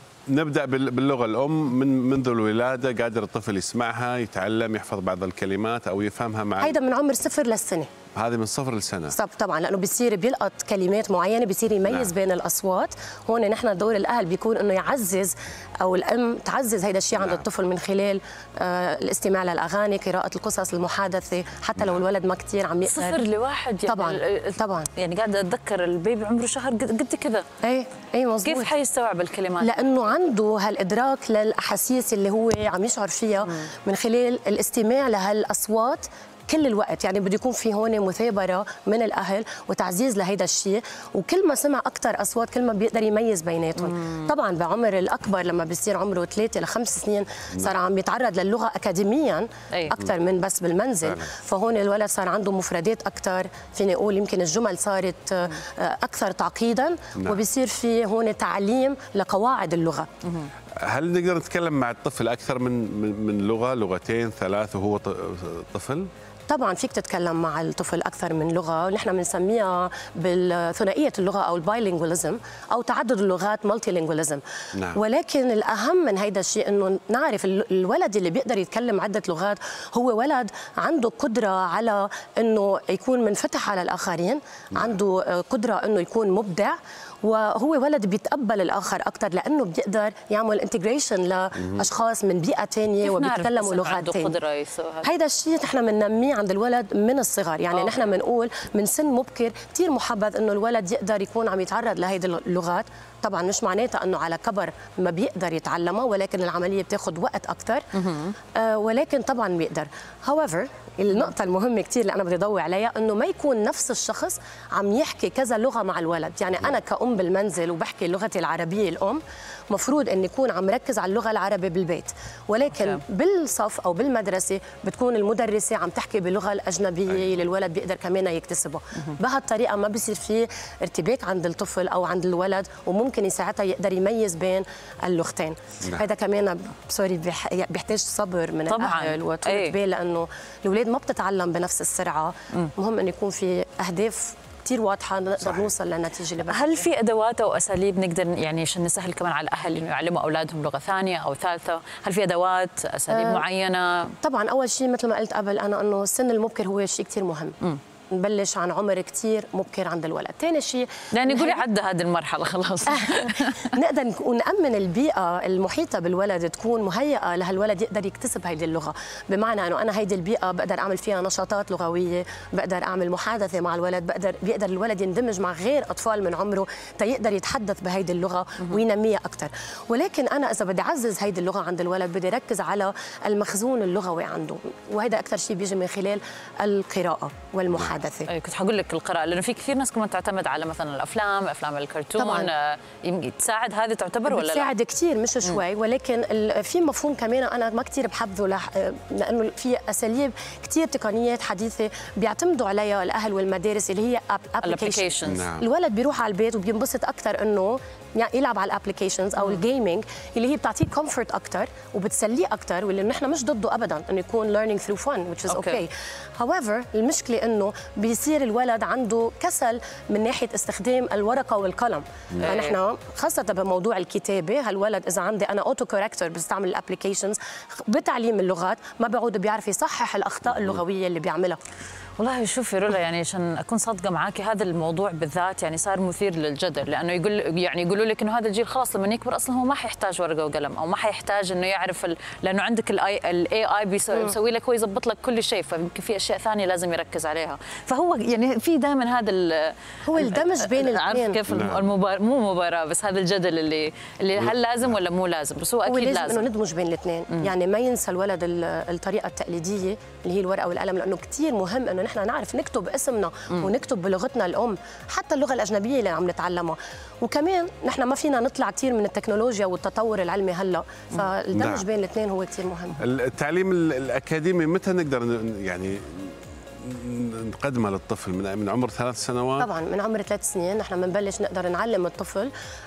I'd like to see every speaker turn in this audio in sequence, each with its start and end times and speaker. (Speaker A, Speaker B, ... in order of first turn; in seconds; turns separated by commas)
Speaker A: 0.3-6.8, Speaker B: 6.6-7.9, Speaker A: 8.1-9.2, Speaker B: 9.1-23.2, Speaker A: 17.2-17.4, Speaker C: 22.9-27.4, Speaker B: 23.9-24.9, Speaker B: 27.6-28.7, Speaker C: 28.4-30.0, Speaker B: 29.6-60.1, Speaker C: 43.8-44.3, Speaker C: 49.7-50.0, Speaker A: 57.1-57.4, Speaker C: 60.2-60.5, Speaker A: 60.8-66.1, Speaker B: 66.5-94.3, Speaker A: 74.7-75.0, Speaker A: 84.7-85.0, Speaker A: 91.6-91.8, Speaker C: 93.0-95.1, Speaker B: 95.0-107.8, Speaker C: 97.7-98.1, Speaker C: 107.9-108.3, Speaker B: 108.5-146.9, Speaker C: 122.7-123.0, Speaker A: 135.8-136.1, Speaker C: 138.7-139.7, Speaker A: 145.4-145.7, Speaker C: 146.5-154.2, Speaker B: 153.1-153.4, Speaker B: 154.2-157.6, Speaker B: 158.1-161.6, Speaker C: 161.1-163.7, Speaker B: 162.8-188.3, Speaker A: 187.7-188.0, Speaker C: 188.3-194.7, Speaker B: 192.2-192.5, Speaker B: 194.3-231.6, Speaker C: 204.6-205.4, Speaker A: 205.3-205.6, Speaker C: 215.5-215.8, Speaker C: 222.4-222.8, Speaker C: 232.2-256.5, Speaker B: 250.0-251.4, Speaker A: 251.5-251.9, Speaker B: 255.8-273.0, Speaker A: 271.5-271.8, Speaker A: 273.0-279.7, Speaker B: 279.6-282.5